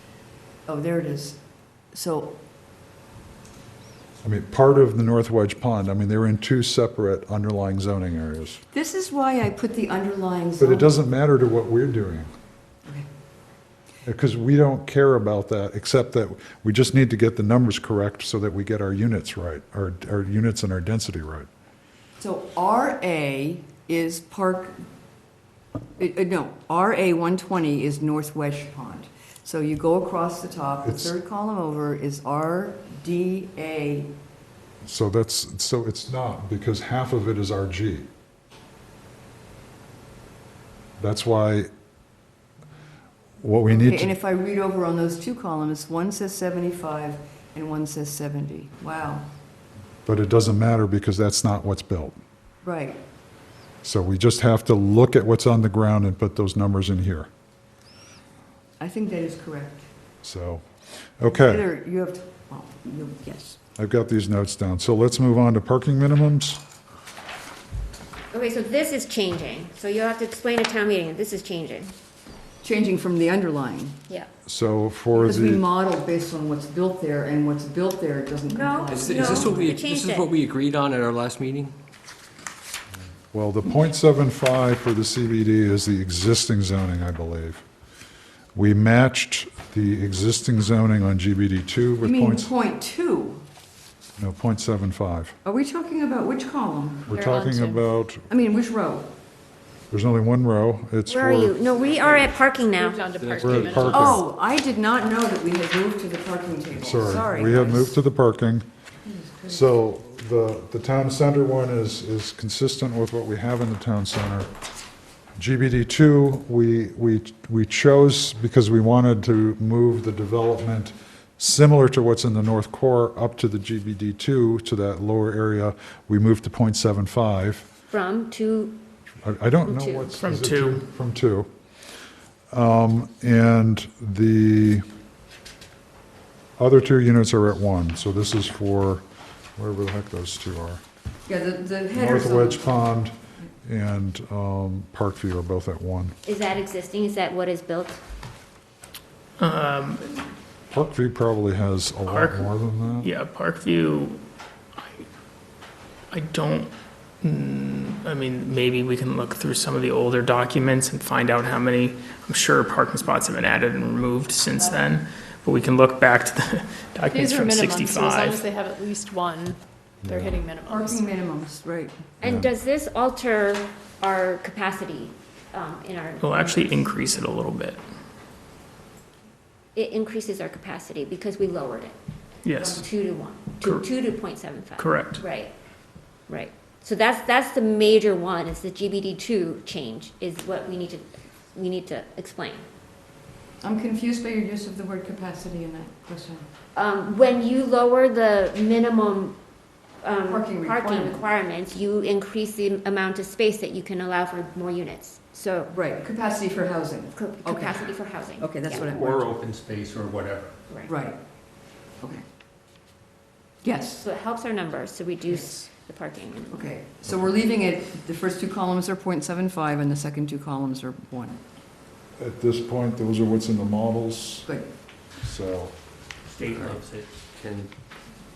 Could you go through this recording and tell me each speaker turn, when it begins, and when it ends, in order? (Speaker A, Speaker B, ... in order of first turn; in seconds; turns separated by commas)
Speaker A: 0.7-1.4, Speaker A: 1.9-2.4, Speaker B: 4.2-8.6, Speaker A: 8.7-10.9, Speaker B: 10.6-12.3, Speaker B: 14.0-21.5, Speaker A: 22.2-24.8, Speaker A: 26.0-34.1, Speaker B: 30.8-31.1, Speaker B: 34.8-38.1, Speaker B: 41.0-41.7, Speaker B: 43.4-44.1, Speaker A: 43.7-49.3, Speaker B: 50.0-52.2, Speaker A: 52.6-53.0, Speaker B: 53.8-57.3, Speaker A: 58.8-59.9, Speaker B: 60.2-60.6, Speaker B: 61.2-61.6, Speaker A: 61.2-63.6, Speaker B: 63.8-66.6, Speaker C: 68.3-71.9, Speaker A: 72.6-74.0, Speaker B: 74.5-75.6, Speaker A: 75.1-79.7, Speaker C: 78.5-80.3, Speaker D: 78.9-81.7, Speaker B: 83.3-87.6, Speaker B: 88.5-92.5, Speaker A: 92.0-93.4, Speaker B: 94.2-95.3, Speaker A: 95.4-97.3, Speaker B: 97.1-98.2, Speaker E: 97.1-97.8, Speaker A: 98.3-99.1, Speaker B: 99.9-101.6, Speaker C: 101.1-103.1, Speaker E: 102.7-104.2, Speaker D: 103.1-103.9, Speaker B: 103.4-104.2, Speaker A: 103.9-108.0, Speaker B: 106.8-108.7, Speaker A: 109.0-109.6, Speaker B: 109.5-114.5, Speaker B: 115.4-127.7, Speaker C: 127.9-128.8, Speaker B: 129.2-131.5, Speaker C: 129.6-130.2, Speaker F: 130.2-130.8, Speaker B: 132.5-134.8, Speaker B: 136.6-139.0, Speaker B: 139.6-140.8, Speaker A: 141.2-142.7, Speaker B: 141.9-146.2, Speaker C: 146.2-148.0, Speaker F: 149.4-150.2, Speaker B: 150.7-153.1, Speaker F: 152.1-154.2, Speaker F: 154.8-155.0, Speaker F: 156.1-156.7, Speaker F: 157.2-168.4, Speaker E: 167.1-171.1, Speaker B: 170.0-170.4, Speaker A: 170.6-172.0, Speaker C: 172.2-176.9, Speaker B: 172.2-172.5, Speaker F: 176.2-177.8, Speaker C: 179.7-181.9, Speaker F: 182.4-182.8, Speaker C: 182.6-185.5, Speaker F: 183.6-183.8, Speaker F: 184.8-185.2, Speaker C: 186.3-192.6, Speaker A: 193.6-196.4, Speaker C: 196.8-199.4, Speaker C: 200.0-205.7, Speaker A: 200.3-201.2, Speaker A: 205.7-209.3, Speaker C: 207.2-208.9, Speaker D: 208.8-210.5, Speaker A: 210.8-211.2, Speaker A: 213.6-214.0, Speaker C: 214.0-216.7, Speaker A: 216.5-221.4, Speaker B: 222.2-224.5, Speaker B: 225.2-225.7, Speaker D: 226.3-227.7